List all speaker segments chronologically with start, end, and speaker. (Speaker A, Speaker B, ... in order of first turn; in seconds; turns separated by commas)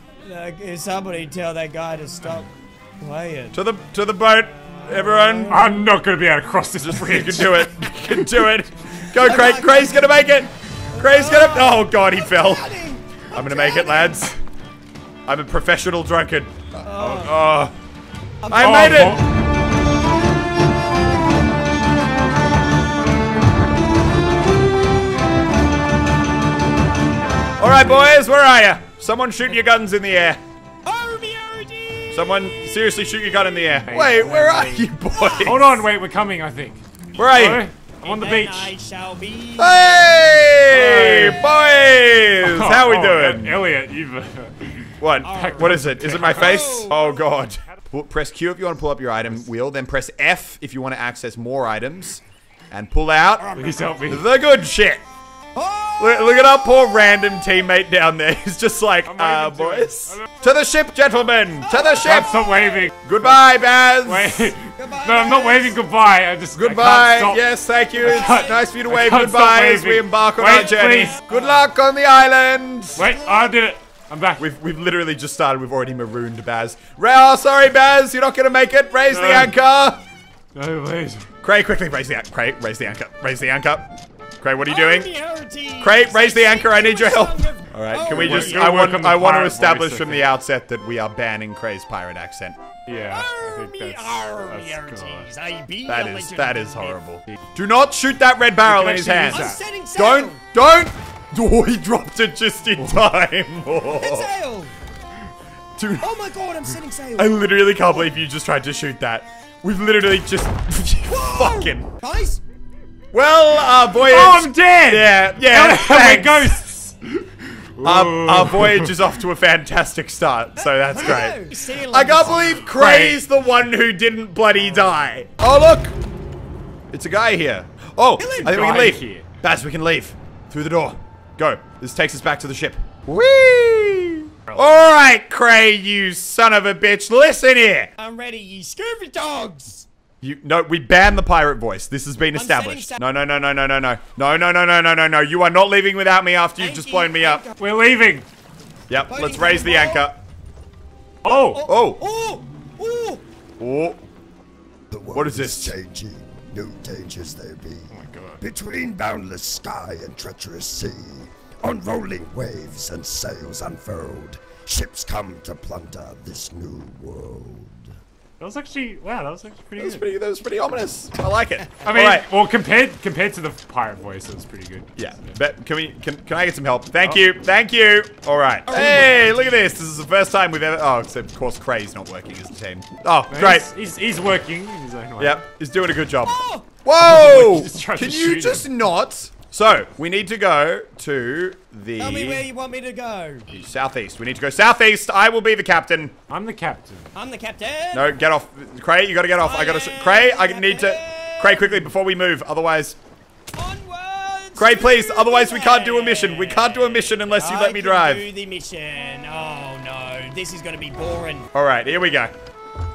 Speaker A: 0.2-2.5, Speaker A: 3.0-3.6, Speaker B: 3.5-5.6, Speaker A: 4.8-5.7, Speaker C: 5.5-7.7, Speaker B: 6.8-12.7, Speaker A: 9.1-10.1, Speaker A: 10.9-14.2, Speaker B: 13.3-14.4, Speaker B: 15.3-17.7, Speaker A: 16.7-17.4, Speaker A: 18.4-19.1, Speaker B: 18.5-19.2, Speaker C: 18.5-19.2, Speaker B: 27.6-30.4, Speaker A: 30.8-32.4, Speaker B: 32.1-35.8, Speaker C: 33.9-34.9, Speaker A: 35.1-35.6, Speaker C: 35.4-38.7, Speaker B: 37.2-37.6, Speaker A: 38.0-40.6, Speaker B: 39.6-43.6, Speaker C: 40.7-41.5, Speaker C: 42.4-47.7, Speaker B: 45.0-55.0, Speaker A: 45.2-47.0, Speaker C: 53.5-54.3, Speaker A: 53.7-54.0, Speaker A: 55.5-56.6, Speaker B: 56.0-62.4, Speaker C: 59.0-60.3, Speaker A: 61.6-62.9, Speaker C: 62.0-63.4, Speaker B: 63.0-64.5, Speaker C: 64.0-67.4, Speaker A: 64.8-65.8, Speaker B: 66.5-73.1, Speaker C: 68.0-71.2, Speaker A: 68.0-68.5, Speaker A: 70.5-71.4, Speaker C: 73.0-74.4, Speaker A: 73.0-73.5, Speaker B: 74.4-80.0, Speaker C: 79.1-79.5, Speaker C: 80.5-81.3, Speaker B: 81.4-85.1, Speaker A: 84.7-88.7, Speaker B: 85.8-92.6, Speaker C: 88.1-90.3, Speaker C: 92.9-95.3, Speaker A: 93.1-97.0, Speaker B: 95.9-104.3, Speaker C: 98.6-99.6, Speaker A: 99.2-100.4, Speaker C: 102.8-103.1, Speaker A: 103.9-104.7, Speaker B: 105.8-106.1, Speaker A: 106.0-107.3, Speaker B: 107.2-111.9, Speaker A: 111.1-112.4, Speaker B: 113.1-116.8, Speaker C: 114.0-119.2, Speaker B: 117.8-125.9, Speaker A: 120.6-122.7, Speaker C: 122.6-123.2, Speaker B: 126.9-137.9, Speaker A: 128.2-128.8, Speaker C: 128.4-129.2, Speaker A: 138.0-139.9, Speaker B: 140.2-147.4, Speaker A: 142.3-143.0, Speaker A: 146.6-147.6, Speaker C: 147.6-148.3, Speaker B: 148.9-150.2, Speaker A: 149.1-150.1, Speaker C: 151.2-151.6, Speaker A: 151.2-153.2, Speaker B: 151.7-152.0, Speaker B: 153.6-154.0, Speaker D: 154.9-157.9, Speaker B: 155.1-155.8, Speaker C: 157.9-158.4, Speaker D: 158.4-167.7, Speaker C: 168.4-170.1, Speaker B: 169.8-172.3, Speaker C: 171.8-174.9, Speaker B: 175.0-183.7, Speaker A: 178.7-179.6, Speaker C: 183.3-185.4, Speaker B: 185.2-192.4, Speaker A: 186.2-186.7, Speaker C: 187.0-188.7, Speaker A: 192.0-193.5, Speaker B: 193.5-196.1, Speaker C: 196.3-197.1, Speaker A: 197.1-198.1, Speaker B: 197.9-203.0, Speaker A: 199.4-201.8, Speaker A: 203.5-211.5, Speaker B: 204.6-208.3, Speaker B: 211.5-212.3